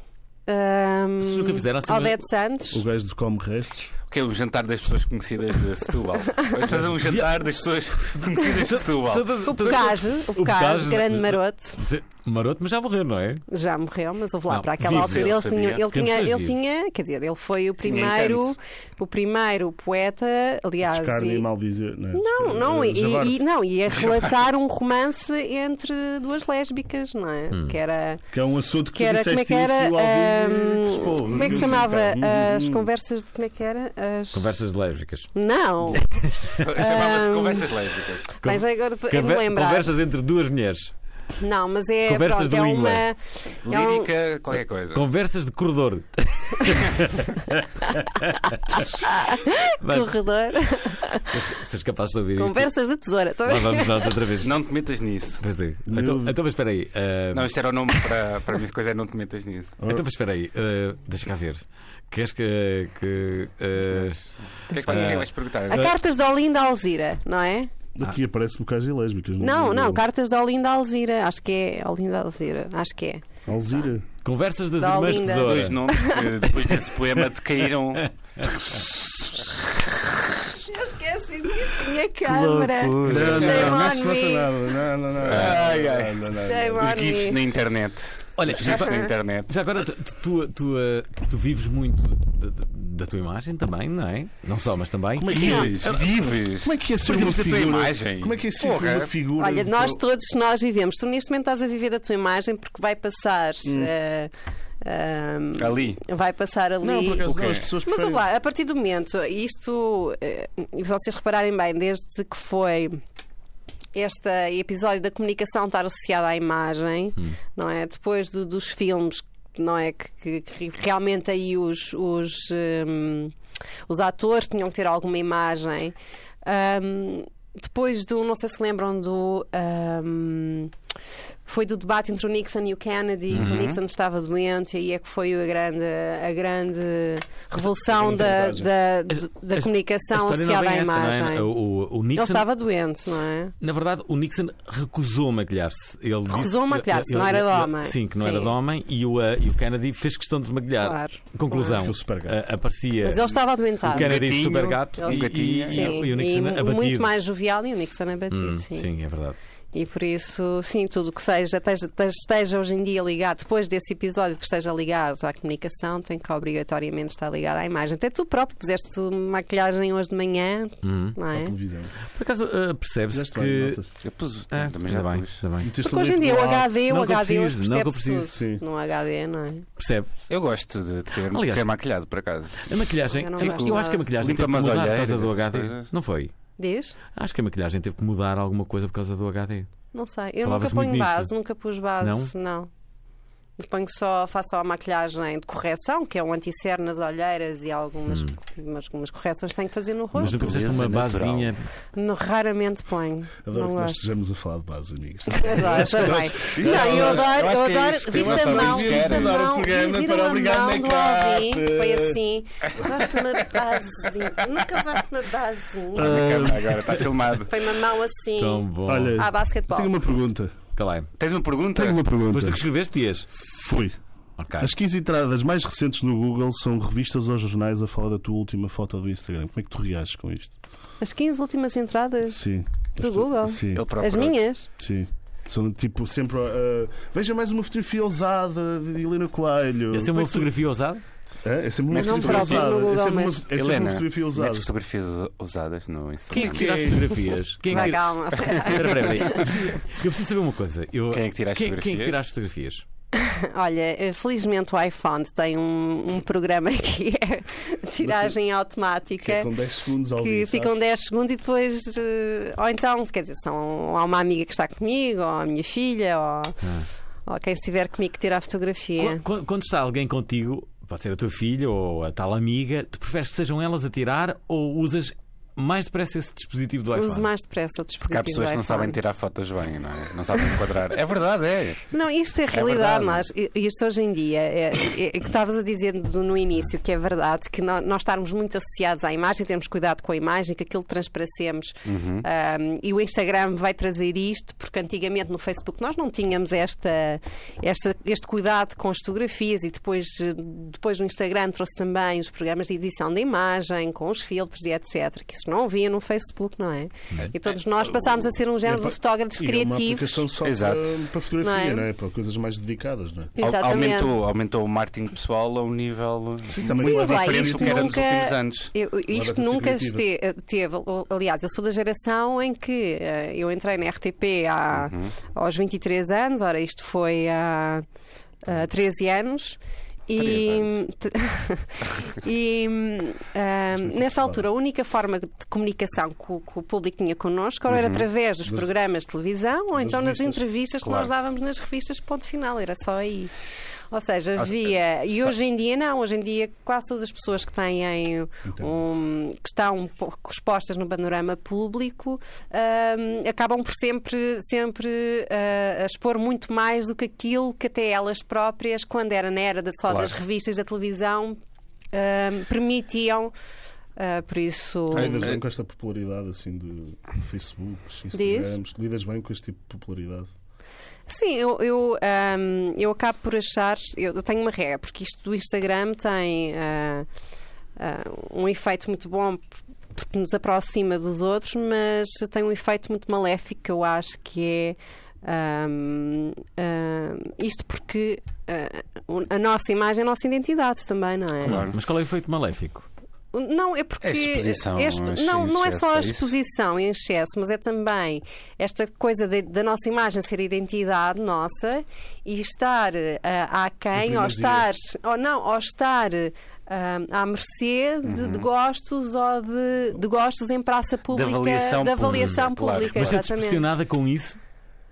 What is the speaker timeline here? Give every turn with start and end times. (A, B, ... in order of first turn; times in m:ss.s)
0:00.5-0:02.8 A
0:01.2-0:02.2 B
0:02.7-0:03.9 C
0:04.1-0:09.3 D
0:06.6-0:13.4 B
0:09.4-0:11.8 A
0:13.5-0:21.5 A
0:14.5-0:16.5 B
0:14.8-0:15.8 D
0:17.8-0:18.5 D
0:20.8-0:23.4 C
0:22.1-0:28.2 A
0:28.3-0:32.9 C
0:28.9-0:34.6 A
0:34.3-0:35.3 B
0:35.3-0:37.7 A
0:35.9-0:36.6 B
0:36.6-0:38.3 D
0:38.3-0:39.9 A
0:38.4-0:40.9 B
0:41.4-0:44.1 A
0:42.0-0:43.0 B
0:43.6-0:45.0 D
0:44.9-0:49.1 B
0:48.7-0:51.4 A
0:49.8-0:50.1 B
0:51.3-0:52.7 B
0:52.4-0:54.2 A
0:53.4-0:54.5 B
0:54.4-0:55.4 D
0:55.4-0:57.5 B
0:55.9-0:56.3 C
0:57.3-0:59.8 D
0:59.8-1:00.0 C
0:59.8-1:05.3 B
1:04.7-1:05.9 D
1:04.9-1:05.2 A
1:05.7-1:07.7 A
1:08.0-1:10.0 C
1:09.4-1:13.2 A
1:13.4-1:14.0 C
1:14.2-1:15.8 B
1:14.8-1:16.3 A
1:15.2-1:18.1 D
1:16.4-1:17.2 B
1:18.0-1:18.8 B
1:18.6-1:19.2 C
1:20.4-1:24.7 A
1:22.3-1:23.7 B
1:22.9-1:27.0 C
1:23.2-1:23.9 D
1:25.2-1:26.2 D
1:26.4-1:27.4 A
1:26.8-1:29.5 D
1:28.4-1:35.6 B
1:35.2-1:40.0 C
1:35.3-1:39.1 D
1:35.3-1:35.7 A
1:39.4-1:53.0 A
1:43.6-1:43.9 C
1:45.6-1:46.0 D
1:46.8-1:48.2 C
1:47.2-1:47.7 D
1:53.9-2:03.3 A
2:03.9-2:10.7 A
2:11.4-2:21.5 A
2:13.3-2:13.8 D
2:13.3-2:13.6 B
2:17.6-2:18.7 C
2:19.1-2:22.5 B
2:22.1-2:23.5 A
2:23.6-2:37.1 B
2:26.3-2:28.5 A
2:30.8-2:31.8 A
2:31.7-2:32.4 C
2:33.0-2:34.2 A
2:33.9-2:36.0 D
2:35.0-2:38.9 A
2:38.3-2:39.4 B
2:39.7-2:51.5 A
2:50.8-2:51.2 B
2:51.3-2:52.0 C
2:52.1-2:53.9 B
2:53.1-2:53.9 C
2:54.0-2:55.4 D
2:54.5-2:55.7 B
2:55.6-2:56.8 C
2:55.8-2:59.6 A
2:56.9-2:58.4 B
2:58.3-2:58.6 C
2:59.8-3:00.1 B
3:00.3-3:02.8 D
3:01.2-3:01.7 B
3:02.6-3:06.3 B
3:03.1-3:04.0 A
3:03.4-3:05.9 D
3:06.6-3:07.0 A
3:07.1-3:09.7 B
3:09.9-3:12.7 A
3:10.4-3:11.3 B
3:12.0-3:12.3 B
3:13.6-3:20.5 A
3:20.2-3:21.5 D
3:20.2-3:21.6 B
3:22.0-3:24.0 A
3:23.4-3:27.5 C
3:25.3-3:36.2 A
3:26.5-3:29.4 D
3:28.1-3:32.2 C
3:32.8-3:33.6 C
3:35.9-3:37.0 C
3:35.9-3:37.5 D
3:37.5-3:39.9 A
3:38.4-3:39.2 B
3:38.8-3:40.6 C
3:40.8-3:41.1 B
3:41.2-3:42.0 D
3:41.7-3:42.6 C
3:42.3-3:43.3 B
3:43.4-3:44.0 C
3:44.4-3:44.7 B
3:44.6-3:50.6 C
3:51.0-3:52.4 A
3:52.3-3:53.9 C
3:53.0-3:54.7 A
3:53.7-3:54.4 D
3:54.8-4:00.5 C
3:59.9-4:01.0 B
4:01.4-4:04.7 C
4:01.9-4:02.8 D
4:02.0-4:03.4 A
4:03.5-4:07.0 D
4:06.3-4:12.8 B
4:06.4-4:07.2 C
4:07.7-4:09.5 A
4:08.3-4:09.4 D
4:11.1-4:12.2 D
4:13.1-4:19.5 A
4:18.0-4:18.4 C
4:19.2-4:20.8 C
4:20.2-4:26.6 A
4:26.6-4:26.9 B
4:27.2-4:29.2 A
4:29.0-4:37.3 B
4:36.9-4:39.0 A
4:38.1-4:41.9 D
4:41.9-5:10.2 A
4:42.5-4:43.3 D
4:51.8-4:52.2 D
5:08.6-5:13.3 C
5:10.4-5:11.0 D
5:11.4-5:11.9 A
5:13.4-5:14.1 A
5:13.4-5:18.7 D
5:16.5-5:18.0 C
5:16.8-5:27.8 A
5:19.1-5:20.0 C
5:24.7-5:25.1 D
5:28.4-5:43.3 A
5:30.2-5:30.7 D
5:33.8-5:34.4 C
5:37.7-5:38.1 D
5:39.8-5:40.4 C
5:40.8-5:41.1 D
5:43.9-6:01.4 A
5:48.5-5:48.7 C
5:59.9-6:00.1 D
6:01.9-6:03.3 A
6:04.0-6:05.3 A
6:04.9-6:10.3 C
6:04.9-6:05.4 D
6:08.1-6:08.5 A
6:11.1-6:17.1 A
6:17.8-6:31.6 A
6:31.4-6:31.8 D
6:31.4-6:32.8 B
6:33.3-6:53.6 A
6:34.0-6:36.3 D
6:43.9-6:44.7 C
6:48.0-6:48.5 D
6:51.1-6:53.2 D
6:52.9-6:54.4 B